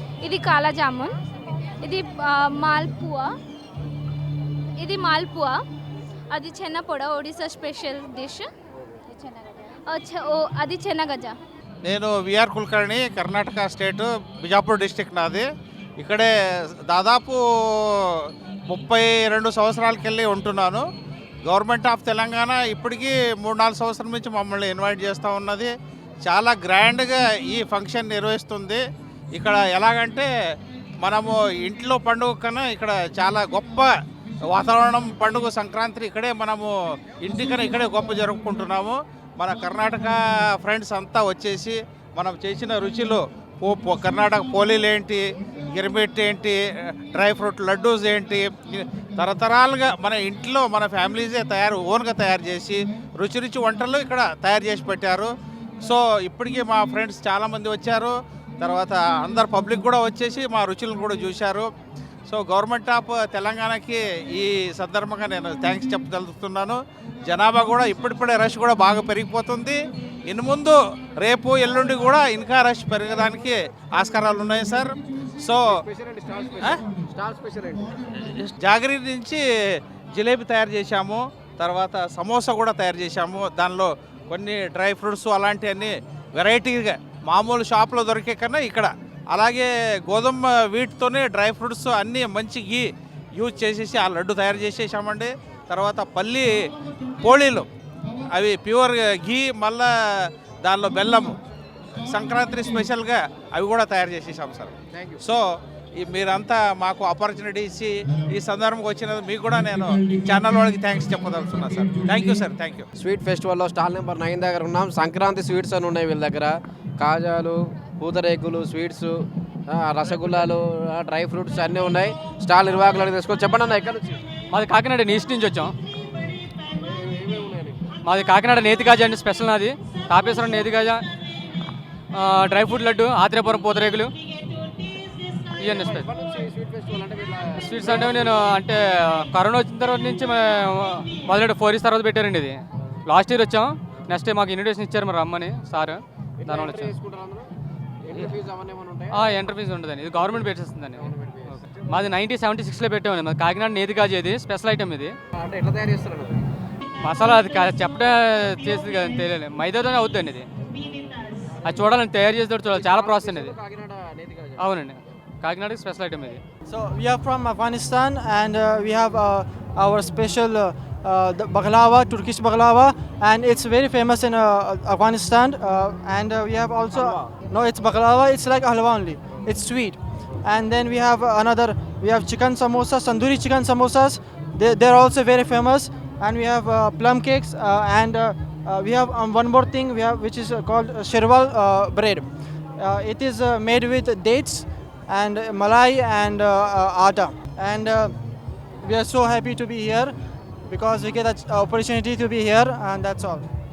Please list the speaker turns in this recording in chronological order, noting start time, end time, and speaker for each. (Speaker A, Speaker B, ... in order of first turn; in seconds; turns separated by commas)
Speaker A: 0.2-1.1, Speaker A: 1.8-3.3, Speaker A: 4.8-5.6, Speaker A: 6.3-8.5, Speaker A: 9.2-11.3, Speaker B: 11.9-15.5, Speaker B: 16.0-16.3, Speaker B: 16.9-20.8, Speaker B: 21.4-25.7, Speaker B: 26.2-28.8, Speaker B: 29.3-30.3, Speaker B: 31.0-33.9, Speaker B: 34.5-55.3, Speaker B: 55.8-61.7, Speaker B: 62.3-75.7, Speaker C: 75.6-78.3, Speaker B: 78.2-79.4, Speaker B: 80.1-96.5, Speaker B: 97.2-97.7, Speaker B: 98.3-101.4, Speaker B: 101.9-112.9, Speaker C: 104.9-105.2, Speaker C: 113.0-124.2, Speaker D: 124.5-125.7, Speaker C: 126.7-127.8, Speaker D: 128.0-131.0, Speaker D: 132.1-134.1, Speaker D: 135.6-136.1, Speaker C: 135.6-138.3, Speaker D: 137.6-146.9, Speaker C: 146.4-147.5, Speaker C: 148.0-149.3, Speaker D: 149.1-155.1, Speaker C: 150.9-151.9, Speaker C: 155.3-156.4, Speaker D: 157.0-160.5, Speaker C: 161.2-161.9, Speaker D: 161.6-163.5, Speaker C: 162.7-164.7, Speaker D: 164.6-166.4, Speaker E: 166.7-192.2, Speaker C: 176.9-177.3, Speaker E: 192.8-198.1, Speaker E: 198.8-200.1, Speaker E: 200.7-203.4